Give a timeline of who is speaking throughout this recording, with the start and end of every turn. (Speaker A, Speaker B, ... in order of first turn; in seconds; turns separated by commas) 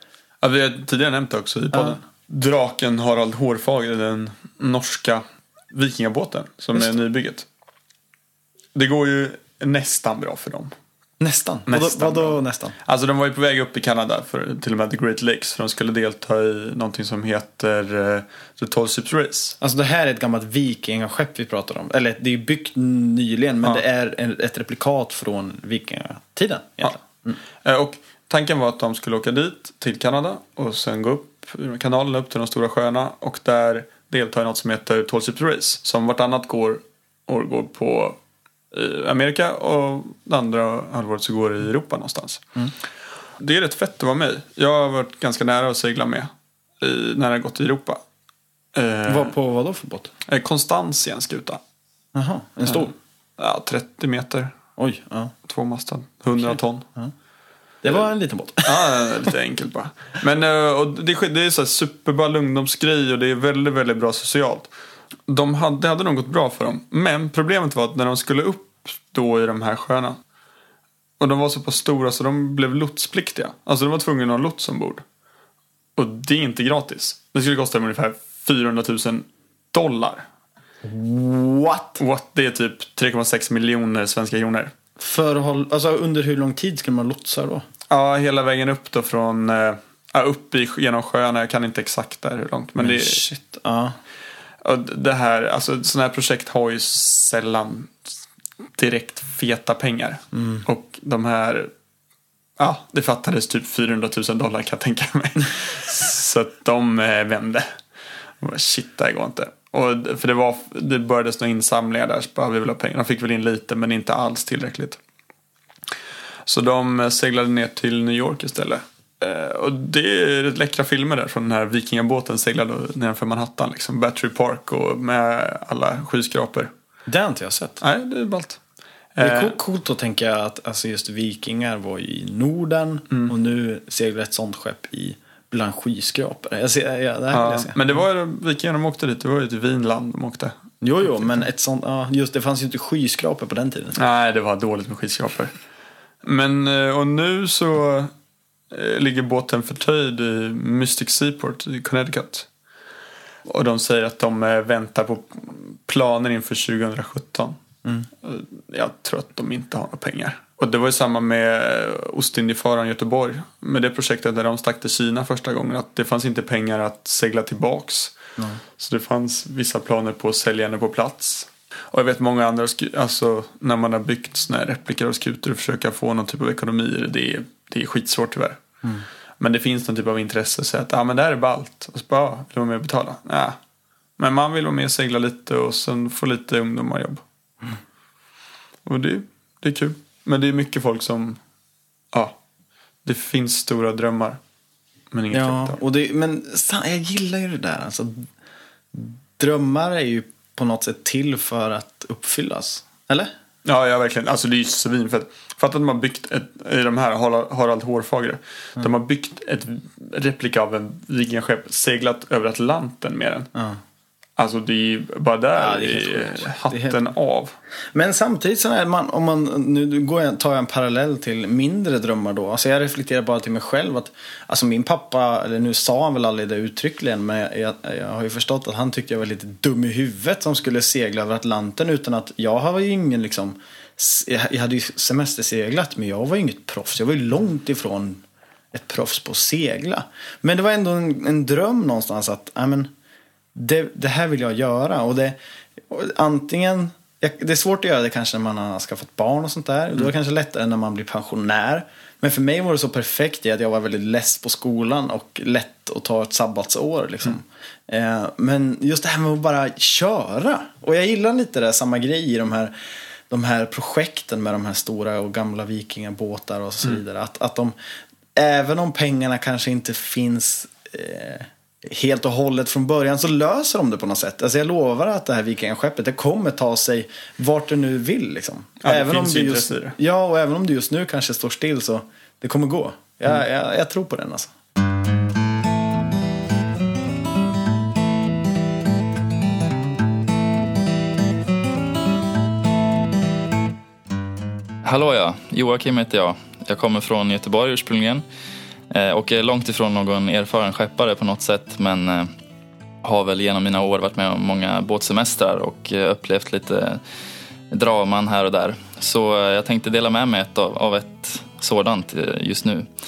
Speaker A: 0.4-7.5, Speaker B: 1.7-2.0, Speaker A: 8.8-10.7, Speaker B: 11.2-12.8, Speaker A: 11.7-19.6, Speaker B: 19.6-27.4, Speaker A: 27.6-38.2, Speaker A: 38.7-42.4, Speaker A: 43.4-48.0, Speaker A: 48.7-49.4, Speaker B: 49.1-50.1, Speaker A: 50.3-51.6, Speaker B: 52.1-52.9, Speaker A: 52.7-54.5, Speaker B: 54.8-55.3, Speaker A: 55.5-56.9, Speaker B: 56.3-57.1, Speaker B: 57.8-59.3, Speaker A: 58.6-64.7, Speaker A: 65.3-70.2, Speaker A: 71.2-75.0, Speaker A: 76.0-80.2, Speaker B: 80.8-82.0, Speaker A: 82.0-84.7, Speaker B: 85.0-87.6, Speaker A: 87.9-93.2, Speaker B: 92.8-94.0, Speaker A: 94.6-98.1, Speaker A: 98.8-101.7, Speaker B: 100.3-100.7, Speaker A: 102.6-107.7, Speaker A: 108.4-115.0, Speaker A: 116.5-126.7, Speaker B: 127.1-127.8, Speaker A: 127.8-128.6, Speaker A: 129.2-129.6, Speaker B: 129.2-138.0, Speaker A: 137.3-140.5, Speaker B: 140.8-144.0, Speaker A: 141.1-141.4, Speaker A: 144.0-145.6, Speaker A: 146.2-148.1, Speaker A: 148.7-152.5, Speaker A: 153.5-157.6, Speaker A: 158.2-168.2, Speaker A: 168.8-178.6, Speaker A: 179.4-183.6, Speaker A: 184.2-187.2, Speaker A: 188.9-191.4, Speaker A: 193.1-194.4, Speaker A: 195.1-195.8, Speaker B: 195.3-198.3, Speaker B: 198.9-203.3, Speaker A: 203.7-213.5, Speaker A: 214.4-217.6, Speaker B: 215.6-217.0, Speaker B: 217.9-242.9, Speaker B: 243.6-245.4, Speaker B: 245.9-262.7, Speaker B: 263.3-267.8, Speaker B: 268.4-284.5, Speaker A: 278.8-280.0, Speaker C: 294.8-298.2, Speaker C: 298.9-302.3, Speaker C: 303.0-307.0, Speaker C: 307.7-312.9